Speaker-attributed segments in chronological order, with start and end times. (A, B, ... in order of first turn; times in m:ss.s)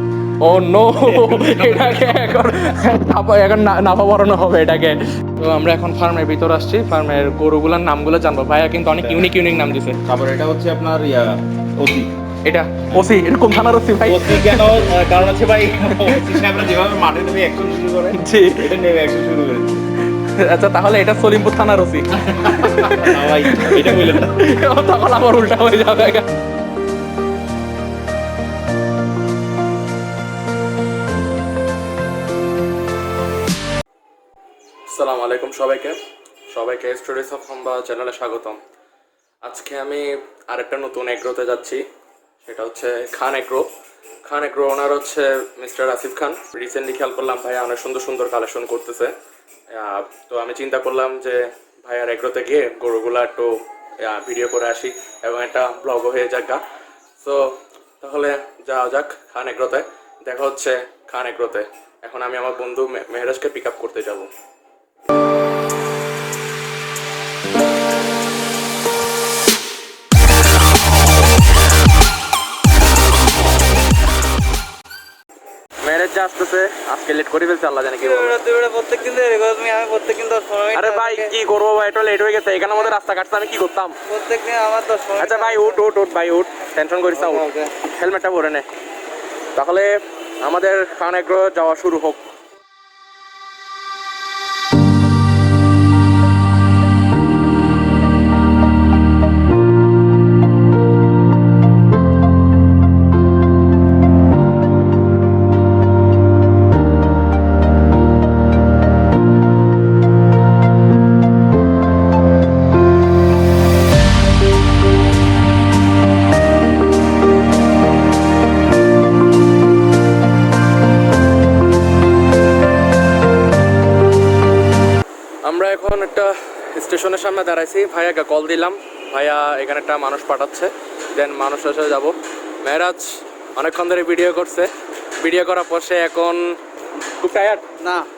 0:00.4-0:10.0 A
0:00.9-0:02.1 B
0:09.0-0:09.3 B
0:10.0-0:12.1 B
0:12.4-0:14.8 A
0:14.0-0:19.8 B
0:15.9-0:16.4 A
0:18.2-0:18.7 A
0:20.2-0:26.3 A
0:22.4-0:24.4 B
0:34.9-0:36.0 A
0:36.5-0:38.6 A
0:39.4-0:41.8 A
0:42.4-0:43.7 A
0:44.3-0:49.1 A
0:49.7-0:56.6 A
0:57.2-1:04.3 A
1:15.8-1:18.4 A
1:18.0-1:21.3 C
1:20.7-1:23.9 A
1:24.1-1:25.8 C
1:25.2-1:28.6 A
1:27.1-1:27.7 C
1:29.6-1:32.2 A
2:05.4-2:14.7 A
2:15.2-2:16.6 A
2:17.2-2:17.6 A